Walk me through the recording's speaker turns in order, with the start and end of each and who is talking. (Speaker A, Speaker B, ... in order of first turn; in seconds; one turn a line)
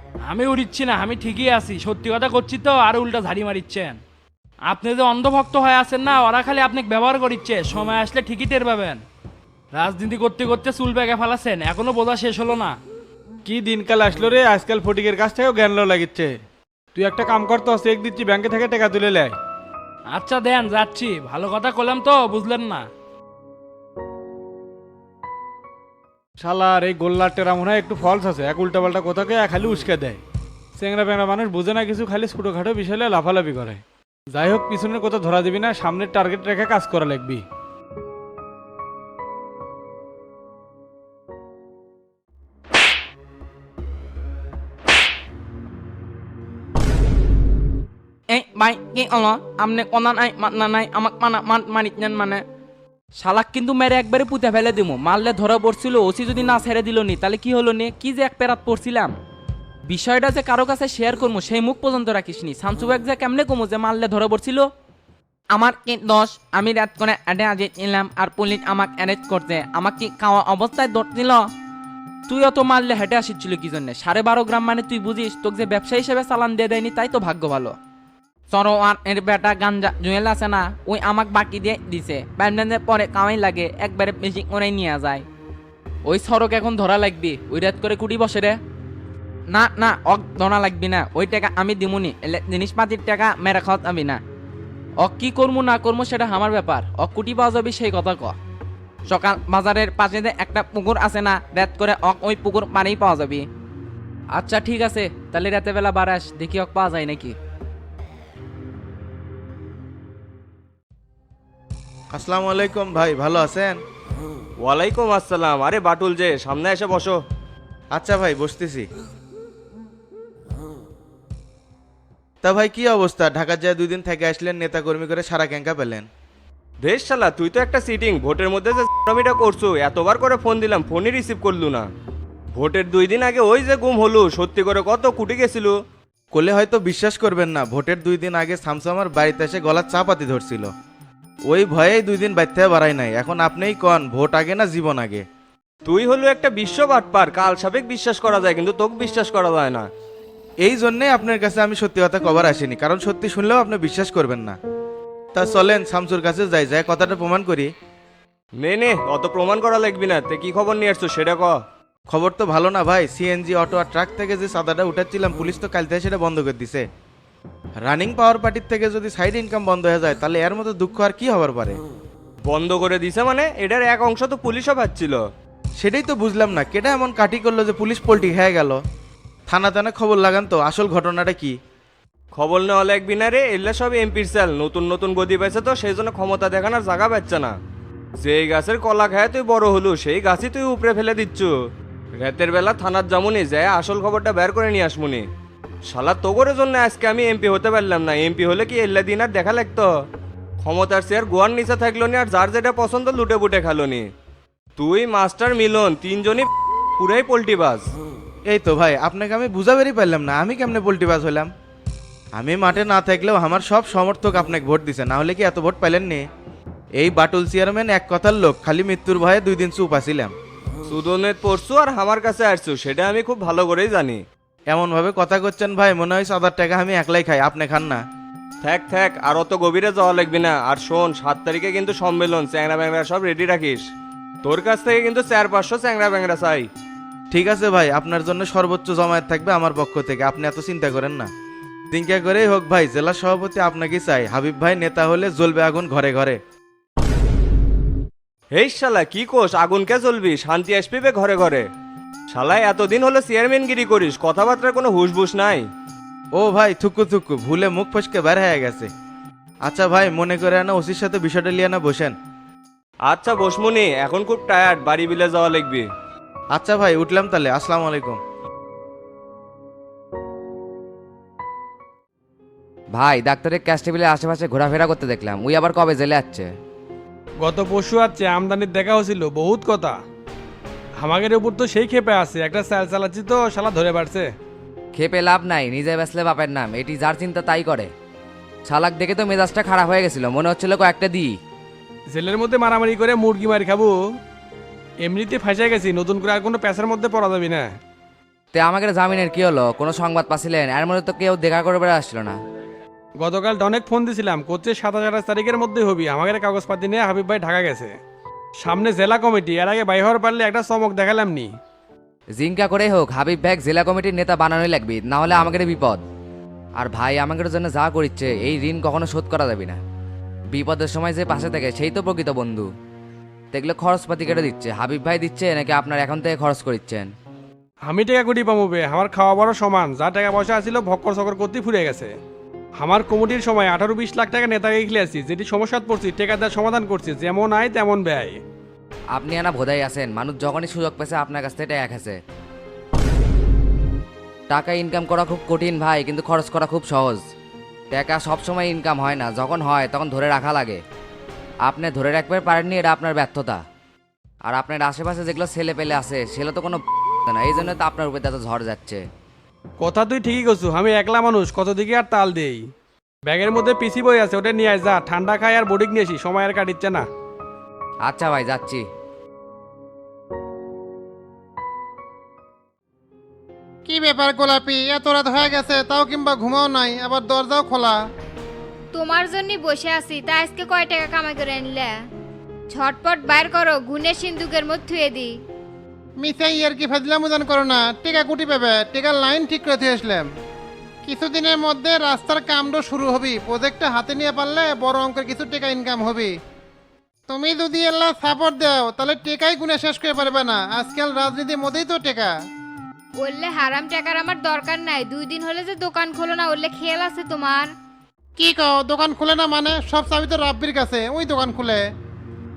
Speaker A: 0.2-4.0
Speaker A: 4.6-9.0
Speaker A: 9.7-12.8
Speaker B: 13.4-16.4
Speaker B: 16.9-19.3
Speaker A: 20.1-22.9
Speaker B: 26.4-30.2
Speaker B: 30.8-33.8
Speaker B: 34.3-37.4
Speaker C: 48.3-52.4
Speaker C: 53.1-59.2
Speaker C: 59.9-64.7
Speaker C: 65.5-71.5
Speaker C: 72.3-77.8
Speaker C: 78.5-85.3
Speaker C: 86.0-88.6
Speaker C: 89.5-94.2
Speaker C: 95.0-98.4
Speaker C: 99.1-103.5
Speaker C: 104.4-107.4
Speaker D: 112.1-113.8
Speaker E: 114.6-117.2
Speaker D: 117.9-118.9
Speaker D: 122.4-126.1
Speaker E: 126.8-131.8
Speaker E: 132.6-135.7
Speaker D: 136.3-140.7
Speaker D: 141.5-145.2
Speaker E: 145.9-149.9
Speaker D: 150.6-154.6
Speaker D: 155.3-157.7
Speaker E: 158.6-161.5
Speaker D: 162.1-166.8
Speaker D: 167.8-171.8
Speaker E: 172.5-175.2
Speaker D: 175.8-178.8
Speaker D: 179.5-181.5
Speaker E: 182.3-187.5
Speaker E: 188.2-191.5
Speaker E: 192.2-195.2
Speaker E: 195.9-199.9
Speaker E: 200.6-204.1
Speaker E: 204.8-206.5
Speaker E: 207.0-207.9
Speaker D: 208.5-211.5
Speaker D: 212.4-216.2
Speaker D: 217.0-220.3
Speaker E: 220.9-224.2
Speaker D: 224.7-228.0
Speaker E: 228.6-233.8
Speaker E: 234.4-236.7
Speaker D: 237.3-241.3
Speaker D: 241.9-246.4
Speaker E: 248.5-251.7
Speaker E: 252.3-255.6
Speaker D: 256.4-258.9
Speaker D: 259.7-262.1
Speaker E: 263.1-265.9
Speaker D: 266.6-268.2
Speaker F: 272.9-276.5
Speaker G: 277.4-280.0
Speaker G: 281.0-284.3
Speaker F: 284.9-287.9
Speaker F: 288.7-291.4
Speaker G: 292.1-294.0
Speaker G: 295.1-297.7
Speaker F: 298.5-302.4
Speaker G: 303.2-307.9
Speaker G: 308.6-311.5
Speaker F: 312.4-316.0
Speaker F: 316.8-319.8
Speaker F: 320.5-322.7
Speaker F: 323.5-327.1
Speaker G: 327.9-332.1
Speaker G: 332.8-338.4
Speaker F: 339.1-342.2
Speaker F: 344.5-347.2
Speaker F: 347.9-350.8
Speaker F: 351.6-353.6
Speaker F: 354.4-359.0
Speaker G: 359.8-362.6
Speaker G: 363.3-367.1
Speaker F: 368.1-368.9
Speaker H: 373.9-378.0
Speaker I: 378.9-381.9
Speaker I: 382.7-385.4
Speaker H: 386.2-390.3
Speaker H: 391.1-396.3
Speaker H: 397.3-402.3
Speaker I: 403.2-407.7
Speaker H: 408.4-411.8